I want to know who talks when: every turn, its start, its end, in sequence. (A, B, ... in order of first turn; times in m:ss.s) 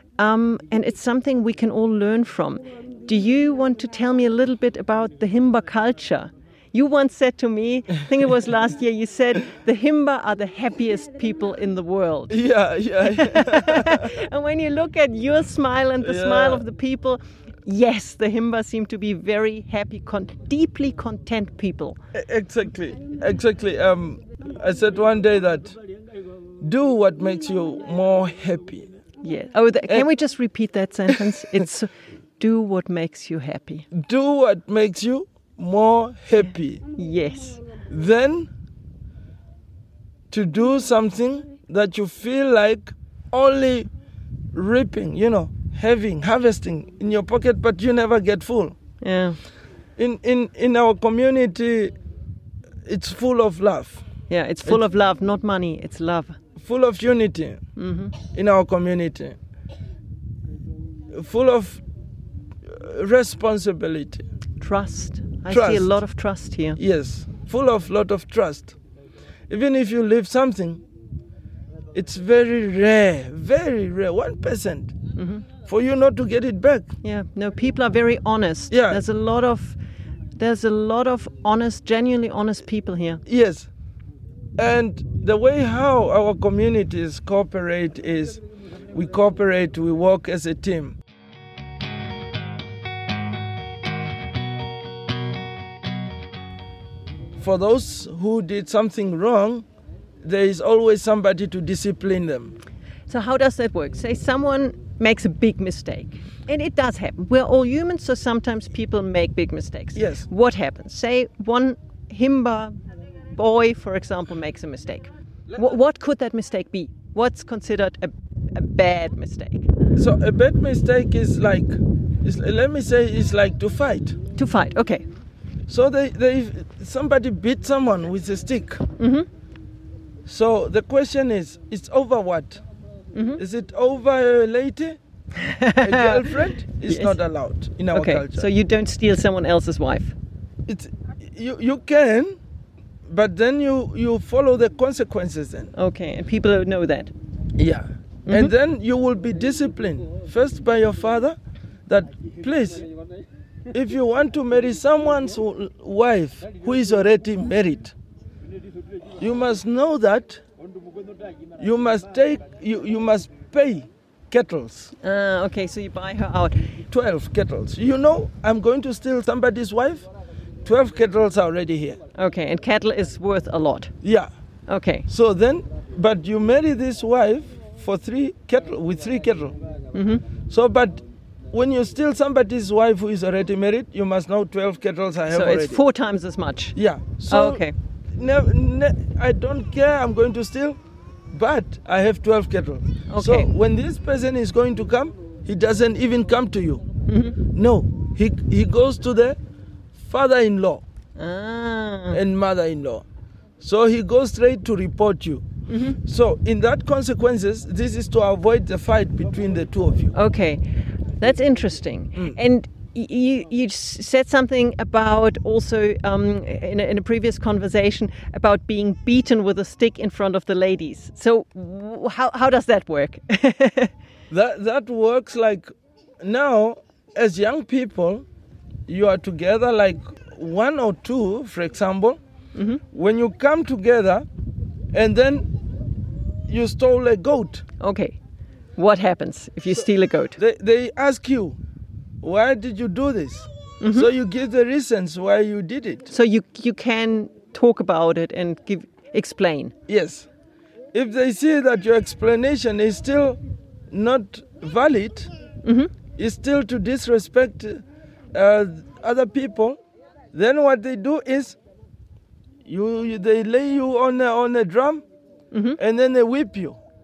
0:00.2-0:12.4 A
0:12.3-0:14.1 B
0:13.0-0:22.0 A
0:16.0-0:16.6 B
0:22.1-0:25.8 B
0:26.6-0:28.9 B
0:29.2-0:33.9 A
0:33.9-0:36.8 B
0:37.0-0:37.6 A
0:37.9-0:38.5 B
0:40.3-0:43.9 B
0:44.5-0:48.8 B
0:49.0-0:49.4 A
0:50.0-0:52.0 B
0:52.9-0:54.0 B
0:54.3-0:56.4 A
0:56.6-0:57.6 B
0:57.8-0:58.2 A
0:58.2-0:59.4 B
1:01.1-1:01.8 B
1:02.7-1:04.2 B
1:04.6-1:06.8 A
1:05.5-1:06.0 B
1:06.8-1:08.8 B
1:09.5-1:10.8 B
1:11.9-1:15.0 B
1:15.2-1:15.4 A
1:15.7-1:16.9 B
1:17.0-1:19.8 A
1:18.7-1:19.0 B
1:20.4-1:23.2 A
1:23.3-1:23.7 B
1:24.6-1:28.4 B
1:28.9-1:31.0 B
1:37.4-1:39.6 B
1:40.2-1:42.6 B
1:43.1-1:52.8 A
1:50.0-1:50.3 B
1:53.4-1:59.7 A
2:00.0-2:04.2 B
2:04.4-2:05.0 A
2:05.7-2:08.8 B
2:09.0-2:09.3 A
2:10.3-2:12.6 B
2:13.1-2:13.4 A
2:13.4-2:15.0 B
2:15.4-2:17.2 A
2:15.8-2:18.5 B
2:17.9-2:20.2 A
2:20.7-2:22.4 B
2:23.1-2:25.7 B
2:25.8-2:27.1 A
2:27.6-2:31.4 B
2:28.3-2:28.5 A
2:31.9-2:32.9 B
2:33.7-2:38.0 B
2:39.2-2:40.4 B
2:41.6-2:44.9 B
2:45.0-2:46.6 A
2:46.9-2:50.1 B
2:50.6-2:52.0 B
2:52.2-2:53.9 A
2:54.0-2:54.3 B
2:54.7-2:55.1 A
2:55.1-2:59.6 B
2:59.9-3:00.2 A
3:00.5-3:05.8 B
3:05.3-3:06.8 A
3:06.8-3:10.8 B
3:07.3-3:07.7 A
3:11.3-3:16.8 B
3:13.1-3:13.5 A
3:17.1-3:17.4 A
3:17.4-3:19.4 B
3:20.0-3:20.8 B
3:21.2-3:22.2 A
3:22.1-3:23.0 B
3:23.6-3:25.5 B
3:25.7-3:26.0 A
3:26.0-3:30.1 B
3:30.1-3:30.6 A
3:31.2-3:43.9 A
3:44.3-3:48.2 B
3:48.9-3:52.2 B
3:52.6-3:52.8 A
3:52.9-3:54.3 B
3:54.9-3:55.5 B
3:56.5-3:57.6 B
3:57.8-3:58.2 A
3:58.8-4:00.4 A
4:00.4-4:01.6 B
4:02.2-4:06.1 B
4:03.8-4:04.1 A
4:06.1-4:09.8 A
4:09.9-4:10.3 B
4:10.9-4:13.4 B
4:13.9-4:15.3 B
4:15.6-4:15.9 A
4:16.2-4:17.8 B
4:18.3-4:19.8 B
4:20.3-4:21.6 B
4:22.6-4:25.0 B
4:25.5-4:25.8 A
4:25.8-4:26.8 B